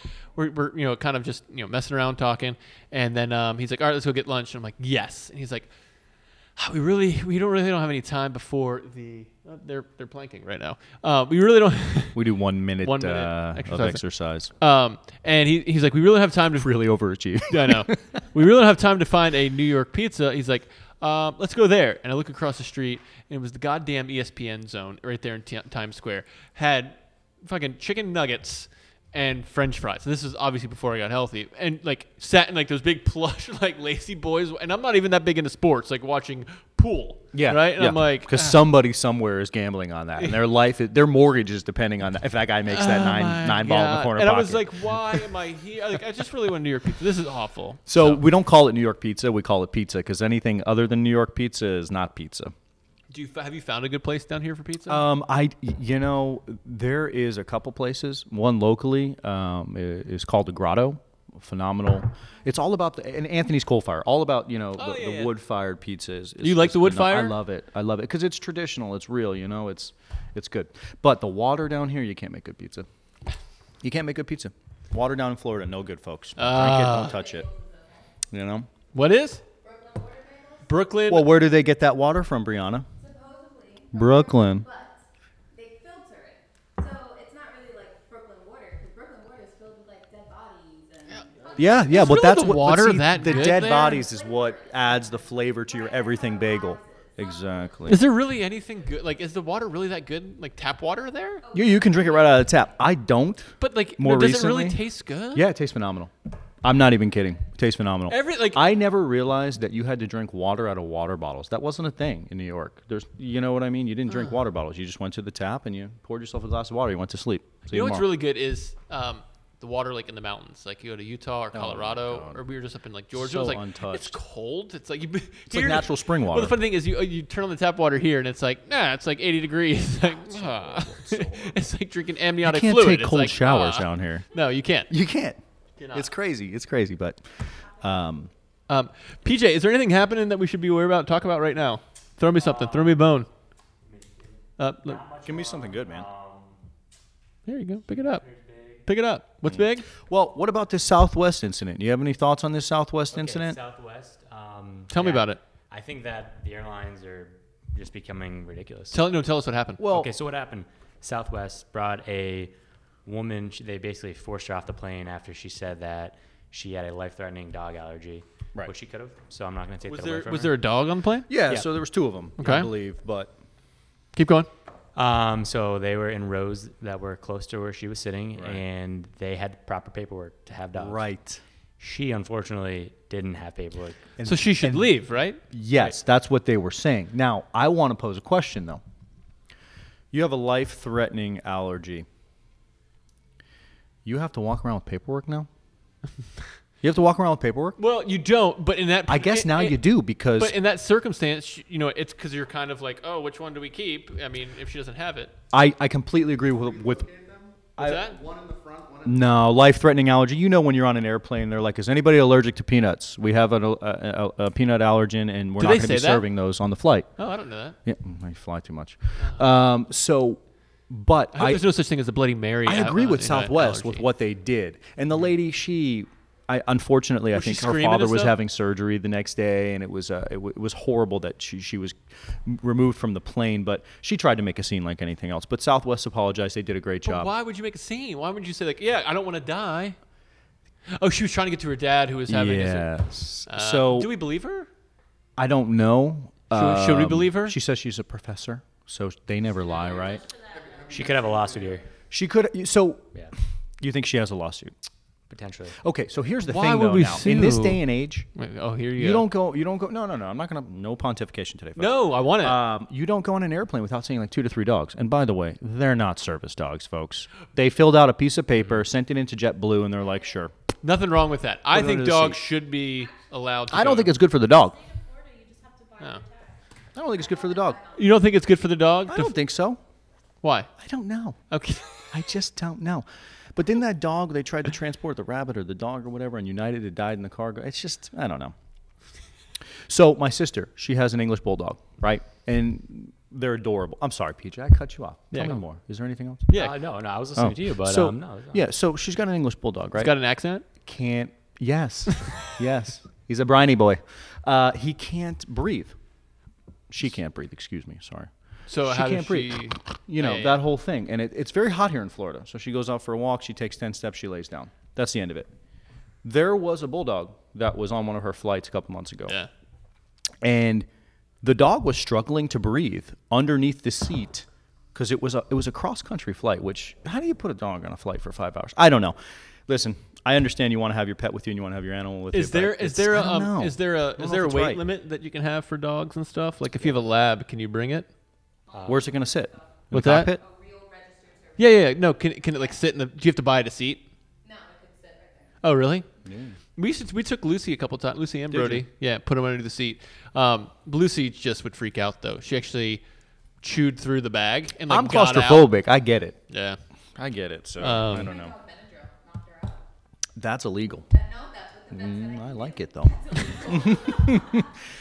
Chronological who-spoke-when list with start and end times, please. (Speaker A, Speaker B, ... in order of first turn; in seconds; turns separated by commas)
Speaker A: 0.3-5.7, Speaker A: 6.6-12.3, Speaker B: 12.2-14.5, Speaker A: 12.8-14.0, Speaker A: 14.6-16.7, Speaker B: 16.6-18.0, Speaker A: 17.5-38.6, Speaker B: 37.3-45.3, Speaker A: 42.7-48.2, Speaker B: 47.9-52.5, Speaker A: 53.1-55.0, Speaker B: 54.9-72.9, Speaker A: 64.8-65.3, Speaker A: 66.4-67.4, Speaker B: 73.8-77.5, Speaker A: 76.4-77.2, Speaker C: 76.7-78.1, Speaker B: 78.3-78.7, Speaker A: 78.9-79.4, Speaker C: 79.6-80.9, Speaker A: 80.7-81.3, Speaker B: 81.1-82.9, Speaker C: 83.0-92.5, Speaker B: 83.9-84.7, Speaker D: 91.4-91.7, Speaker B: 91.6-98.0, Speaker A: 91.9-94.1, Speaker C: 93.2-98.0, Speaker A: 97.9-101.4, Speaker C: 101.4-102.8, Speaker B: 101.5-104.8, Speaker A: 103.6-105.5, Speaker B: 105.3-118.1, Speaker A: 108.1-108.7, Speaker A: 117.7-134.9, Speaker B: 121.5-122.4, Speaker B: 123.1-124.2, Speaker B: 125.5-126.6, Speaker E: 130.1-131.6, Speaker B: 132.4-134.2, Speaker B: 134.9-135.4, Speaker A: 135.8-136.1, Speaker B: 135.9-138.3, Speaker A: 138.7-143.3, Speaker E: 142.3-143.0, Speaker E: 143.8-146.6, Speaker A: 144.6-145.0, Speaker B: 145.2-146.1, Speaker A: 147.5-148.2, Speaker E: 148.0-148.8, Speaker A: 148.8-149.9, Speaker B: 149.5-153.6, Speaker E: 153.1-159.0, Speaker A: 154.9-155.4, Speaker A: 158.9-159.8, Speaker B: 159.8-160.1, Speaker E: 159.8-162.5, Speaker E: 163.1-170.6, Speaker A: 169.9-171.3, Speaker B: 171.3-173.3, Speaker A: 172.4-172.7, Speaker A: 174.2-174.5, Speaker E: 174.9-181.0, Speaker B: 178.3-178.6, Speaker B: 180.8-181.4, Speaker E: 181.8-184.1, Speaker B: 184.2-184.9, Speaker A: 184.2-185.4, Speaker B: 185.5-188.8, Speaker B: 190.1-192.1, Speaker B: 194.1-195.5, Speaker B: 196.8-197.8, Speaker A: 197.8-199.8, Speaker B: 199.1-200.6, Speaker A: 200.4-205.3, Speaker B: 205.5-207.1, Speaker D: 206.4-209.5, Speaker B: 207.8-208.1, Speaker A: 207.8-208.2, Speaker B: 209.1-217.1, Speaker A: 215.6-216.3, Speaker A: 217.2-217.8, Speaker B: 217.8-221.7, Speaker A: 221.3-224.1, Speaker B: 222.7-237.3, Speaker A: 227.3-228.4, Speaker A: 237.1-240.0, Speaker A: 240.9-242.9, Speaker B: 242.3-244.1, Speaker A: 243.5-244.7, Speaker B: 245.4-250.2, Speaker A: 246.5-247.6, Speaker C: 249.5-251.2, Speaker D: 250.3-251.9, Speaker E: 250.9-251.8, Speaker B: 252.1-253.2, Speaker B: 253.8-254.7, Speaker E: 255.3-255.8, Speaker B: 255.8-258.3, Speaker A: 256.4-259.3, Speaker B: 259.0-270.5, Speaker A: 261.8-262.6, Speaker A: 270.8-274.1, Speaker B: 271.7-272.4, Speaker C: 272.9-273.3, Speaker B: 273.7-274.8, Speaker C: 274.4-278.2, Speaker B: 276.9-277.8, Speaker A: 277.9-279.3, Speaker B: 279.1-279.8, Speaker A: 280.4-280.7, Speaker B: 280.8-281.4, Speaker A: 281.5-281.9, Speaker B: 282.1-288.6, Speaker B: 289.9-296.5, Speaker A: 295.3-295.6, Speaker A: 296.5-296.8, Speaker E: 296.5-298.6, Speaker B: 297.4-300.1, Speaker A: 299.9-300.6, Speaker B: 300.9-306.0, Speaker B: 306.9-308.3, Speaker A: 308.7-310.6, Speaker B: 308.9-315.5, Speaker B: 316.2-319.4, Speaker B: 320.4-320.9, Speaker B: 321.4-334.8, Speaker A: 332.3-338.1, Speaker C: 338.7-342.8, Speaker E: 338.7-339.1, Speaker B: 338.9-340.4, Speaker A: 339.9-340.3, Speaker A: 341.6-344.0, Speaker C: 344.4-345.6, Speaker A: 345.6-346.1, Speaker B: 346.2-346.6, Speaker A: 346.8-353.0, Speaker B: 348.5-348.9, Speaker A: 353.6-355.7, Speaker B: 354.9-356.4, Speaker A: 356.5-356.8, Speaker B: 357.2-358.6, Speaker A: 357.8-358.3, Speaker C: 358.0-359.9, Speaker B: 360.4-361.1, Speaker C: 361.1-364.7, Speaker B: 361.9-364.7